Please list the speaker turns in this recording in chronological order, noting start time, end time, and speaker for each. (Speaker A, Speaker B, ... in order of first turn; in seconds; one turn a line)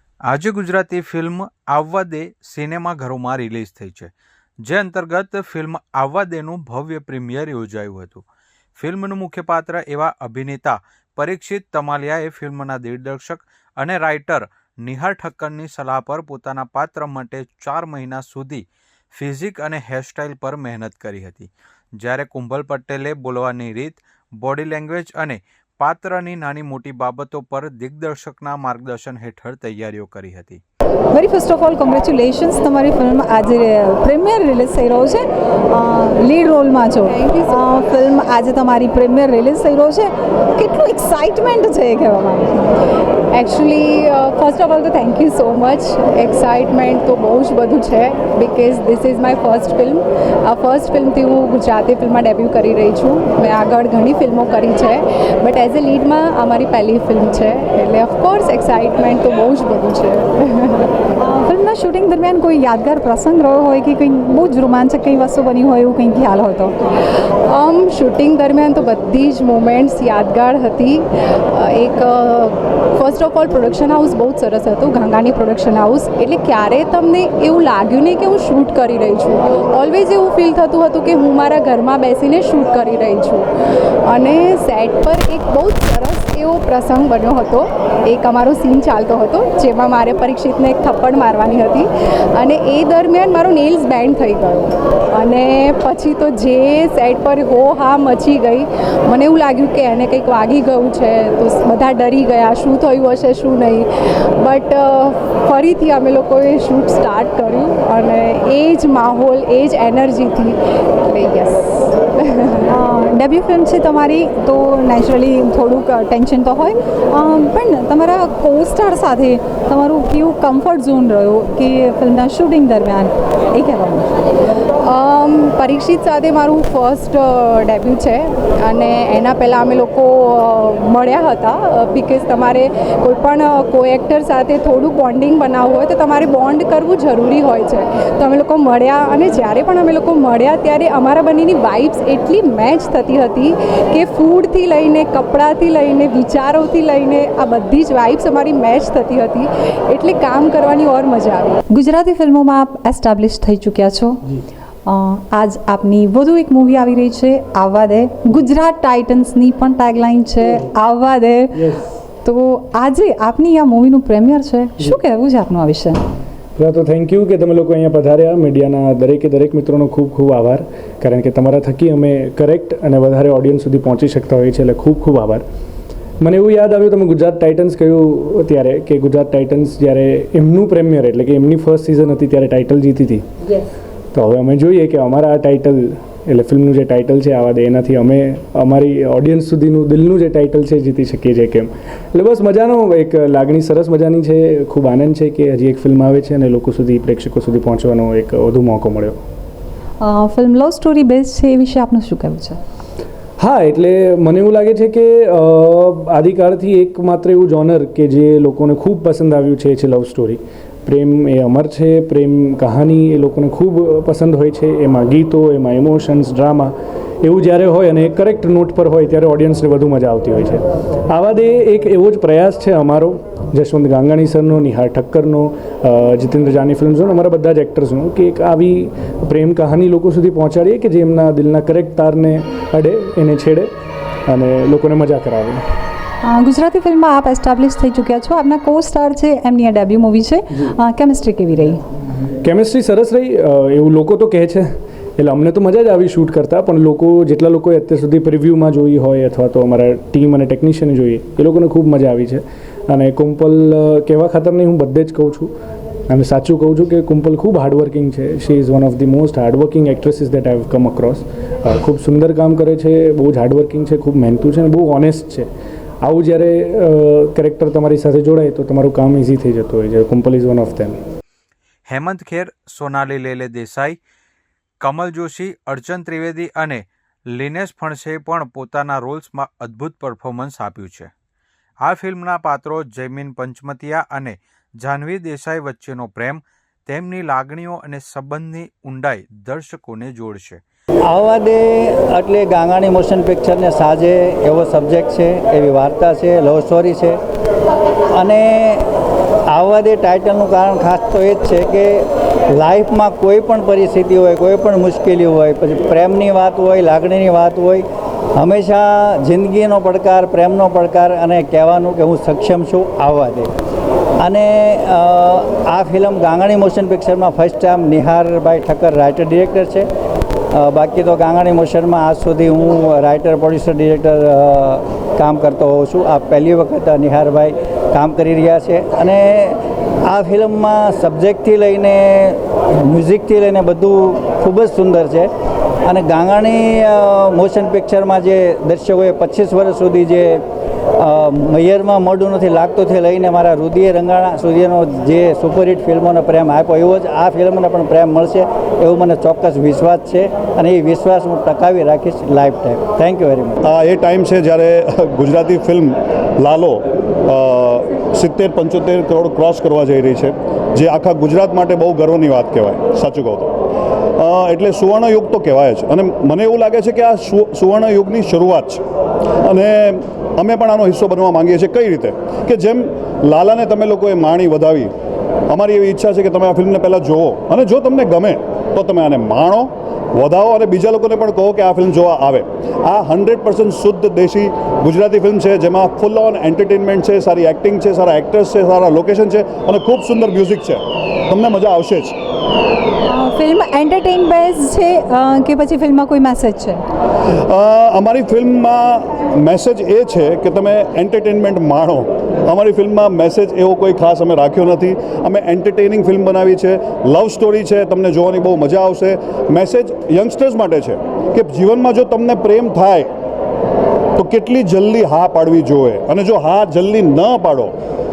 Speaker A: 0.3-4.1
Speaker A: 4.6-8.2
Speaker A: 8.8-30.6
Speaker B: 31.1-42.6
Speaker C: 37.1-37.6
Speaker C: 43.3-60.9
Speaker B: 61.2-66.7
Speaker C: 67.5-83.4
Speaker C: 84.1-103.9
Speaker C: 104.4-112.5
Speaker B: 112.7-124.1
Speaker C: 124.8-151.6
Speaker B: 151.7-154.2
Speaker B: 154.8-161.7
Speaker B: 162.2-166.0
Speaker D: 166.6-175.4
Speaker D: 176.2-183.2
Speaker D: 184.1-199.2
Speaker B: 200.0-202.6
Speaker D: 203.4-233.7
Speaker D: 234.3-235.6
Speaker B: 236.2-241.8
Speaker D: 242.4-255.5
Speaker D: 256.1-265.5
Speaker D: 266.0-271.0
Speaker A: 271.9-274.0
Speaker A: 274.8-281.1
Speaker A: 281.8-290.6
Speaker E: 291.1-297.2
Speaker E: 298.1-298.9
Speaker E: 299.5-307.8
Speaker E: 308.4-313.5
Speaker E: 314.2-319.9
Speaker E: 320.5-335.3
Speaker E: 335.8-340.4
Speaker E: 341.0-353.6
Speaker F: 353.6-363.5
Speaker F: 364.2-368.8
Speaker F: 369.4-374.9
Speaker F: 375.5-392.1
Speaker B: 393.0-396.8
Speaker F: 397.5-413.1
Speaker F: 414.2-417.7